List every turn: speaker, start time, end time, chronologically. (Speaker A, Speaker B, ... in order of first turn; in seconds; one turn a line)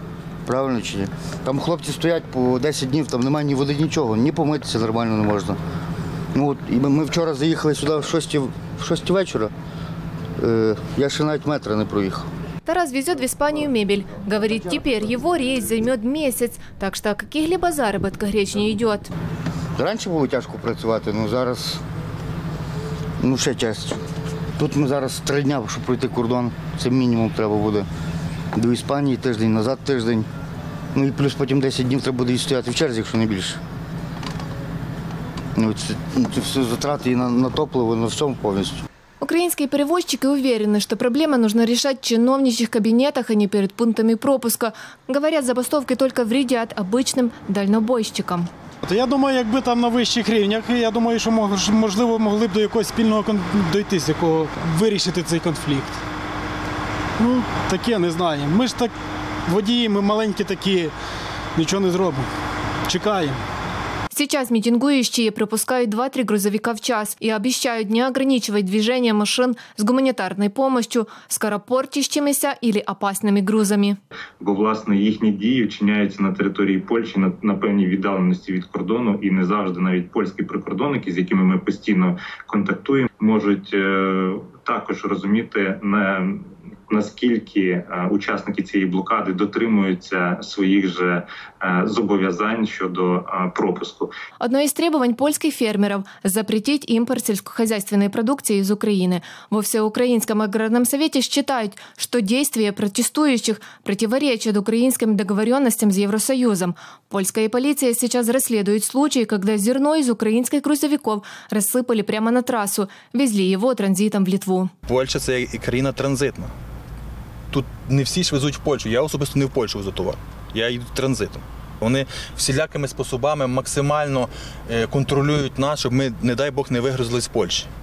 Speaker A: 0.5-5.6
Speaker A: 6.3-9.5
Speaker A: 10.4-12.2
Speaker B: 12.7-19.1
Speaker A: 19.8-21.8
Speaker A: 23.2-24.0
Speaker A: 24.6-27.9
Speaker A: 28.5-30.2
Speaker A: 30.9-33.6
Speaker A: 35.5-38.8
Speaker B: 39.2-48.5
Speaker C: 48.8-56.0
Speaker C: 57.2-60.9
Speaker C: 61.5-62.3
Speaker C: 62.8-63.4
Speaker B: 64.1-74.0
Speaker D: 74.4-94.1
Speaker B: 94.4-114.7
Speaker E: 114.9-116.5
Speaker E: 117.5-127.7